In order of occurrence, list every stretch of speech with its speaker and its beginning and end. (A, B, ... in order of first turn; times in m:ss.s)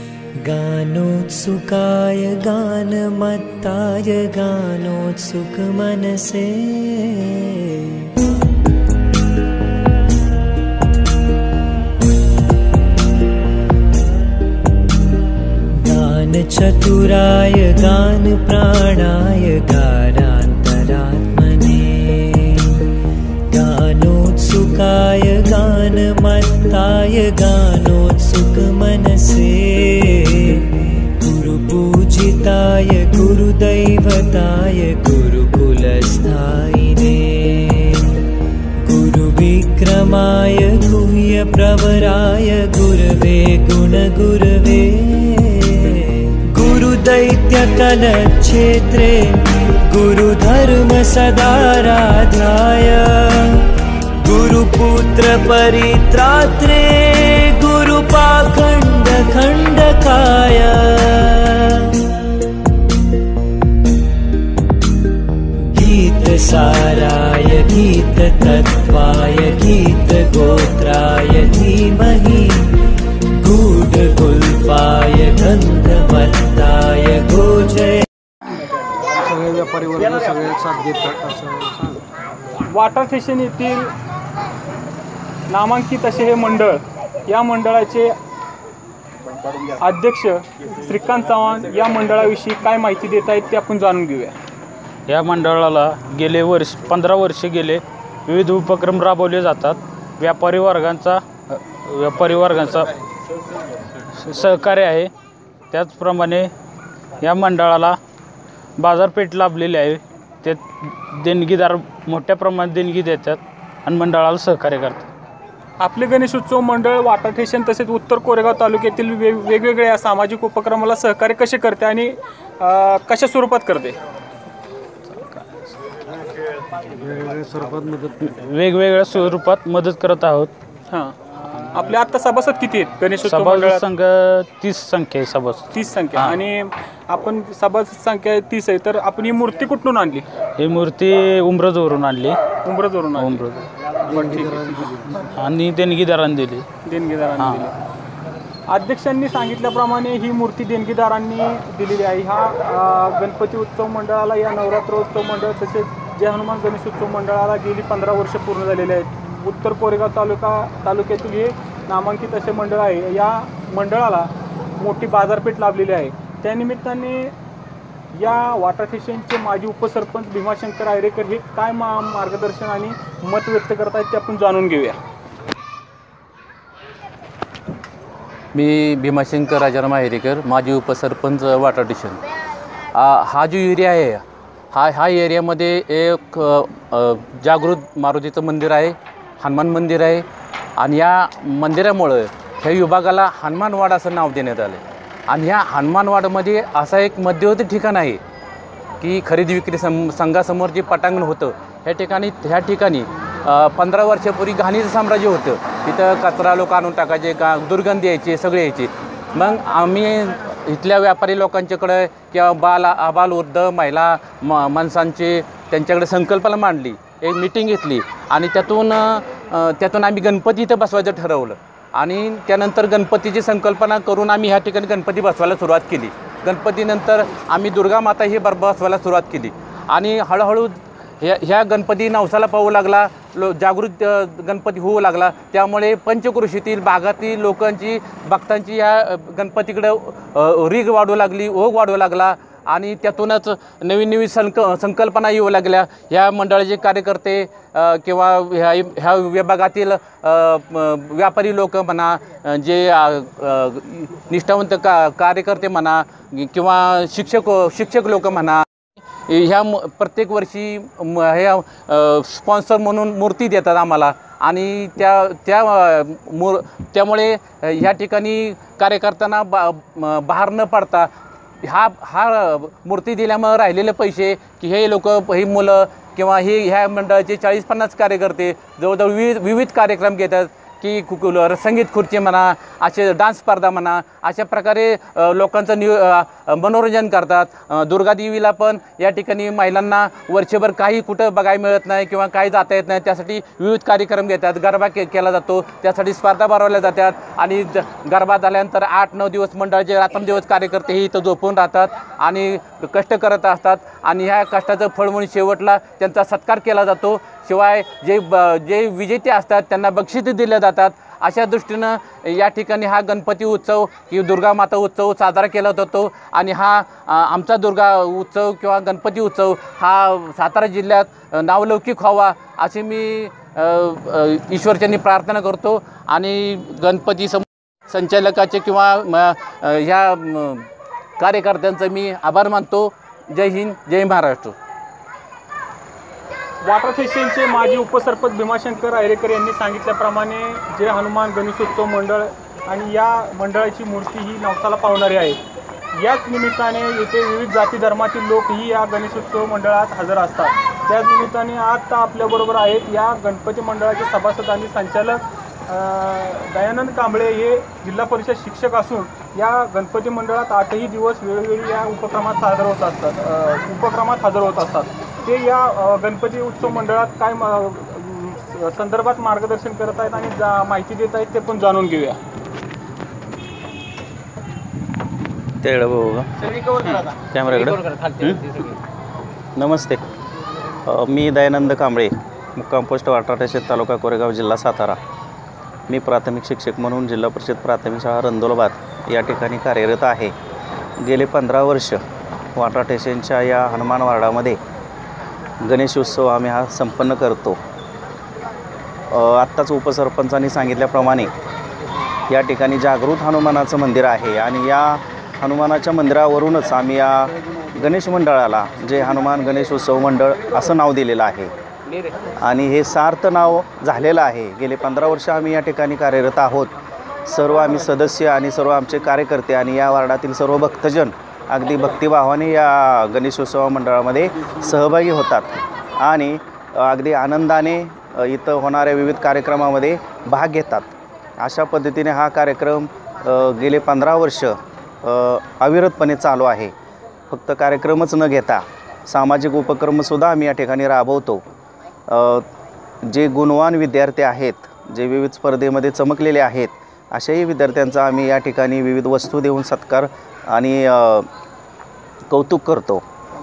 0:00.4-0:08.0 A
0:15.7-0:22.8 A
0:23.5-0:38.2 A
0:38.8-1:02.0 A
1:05.7-1:12.8 A
1:13.3-1:18.0 A
1:19.2-1:22.0 B
1:22.7-1:23.9 C
1:25.5-1:28.1 C
1:29.8-1:34.4 C
1:35.1-1:42.9 D
1:44.1-1:45.1 D
1:45.7-1:46.5 D
1:47.2-1:48.0 D
1:48.8-1:55.1 D
1:55.8-2:04.0 C
2:05.1-2:05.6 D
2:07.0-2:08.2 B
2:08.2-2:10.5 D
2:10.9-2:11.2 C
2:11.7-2:13.8 C
2:13.2-2:16.4 D
2:15.7-2:20.3 C
2:20.6-2:22.4 D
2:22.6-2:23.4 C
2:23.2-2:23.7 D
2:24.1-2:25.0 C
2:24.1-2:25.3 B
2:25.2-2:26.6 D
2:26.8-2:27.7 C
2:27.4-2:27.6 D
2:28.7-2:47.3 C
2:48.1-2:55.0 C
2:58.5-3:02.2 E
3:02.9-3:10.2 E
3:10.8-3:18.2 E
3:19.0-4:18.6 E
4:19.3-4:31.1 E
4:31.6-5:30.7 E
5:31.2-5:34.5 E
5:36.6-5:45.4 C
5:45.9-6:12.2 C
6:15.6-6:16.5 F
6:17.3-6:18.4 F
6:17.5-6:18.0 E
6:19.6-6:20.0 F
6:20.8-6:25.0 F
6:25.9-6:30.3 F
6:31.0-6:32.0 F
6:32.6-6:34.6 F
6:35.6-6:37.6 F
6:39.1-6:41.3 F
6:42.3-6:51.5 F
6:52.4-6:56.7 F
6:57.2-7:05.5 F
7:06.0-7:16.7 F
7:17.3-7:21.4 F
7:22.1-7:22.4 F
7:23.0-7:31.3 F
7:32.3-7:33.0 F